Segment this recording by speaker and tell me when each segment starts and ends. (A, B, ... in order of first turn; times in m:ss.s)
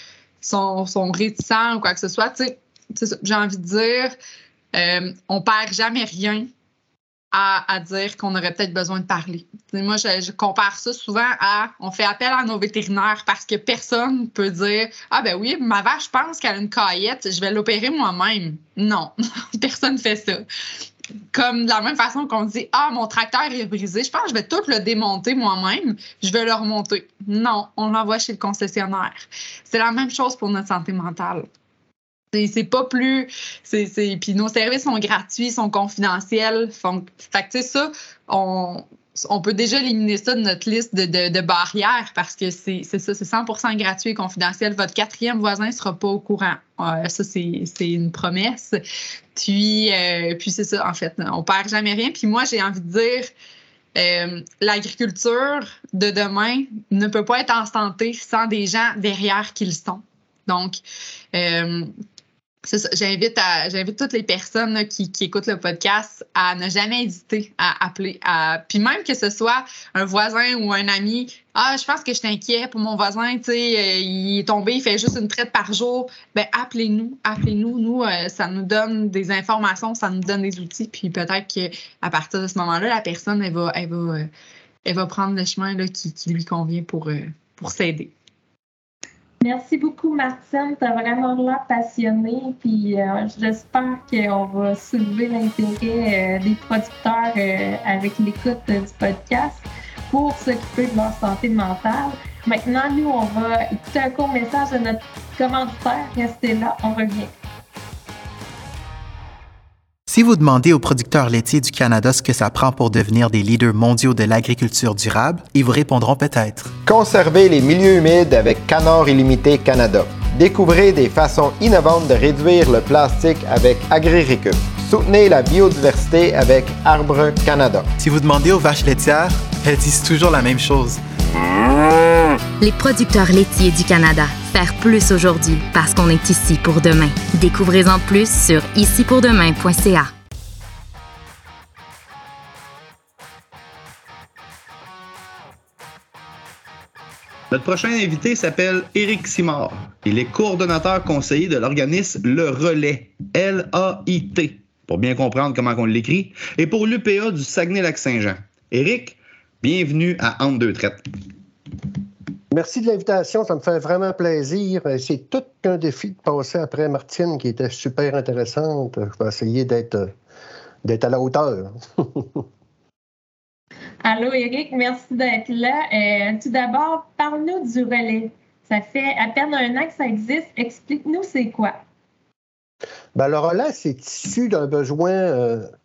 0:00.4-0:04.1 A
0:04.7-0:06.5 A
0:07.3-0:20.4 A
0:21.3-0:31.5 A
0:32.3-0:48.8 A
0:49.4-0:53.3 A
0:53.9-1:00.8 A
1:01.3-1:01.9 A
1:02.6-1:24.3 A
1:24.8-1:28.1 A
1:29.4-1:47.3 B
1:50.1-1:56.8 C
1:56.8-2:07.9 D
2:08.0-2:11.0 C
2:12.6-2:20.1 E
2:27.5-2:41.0 F
2:42.5-2:50.1 G
2:50.8-2:52.4 G
2:54.0-3:01.8 B
3:03.2-3:05.7 G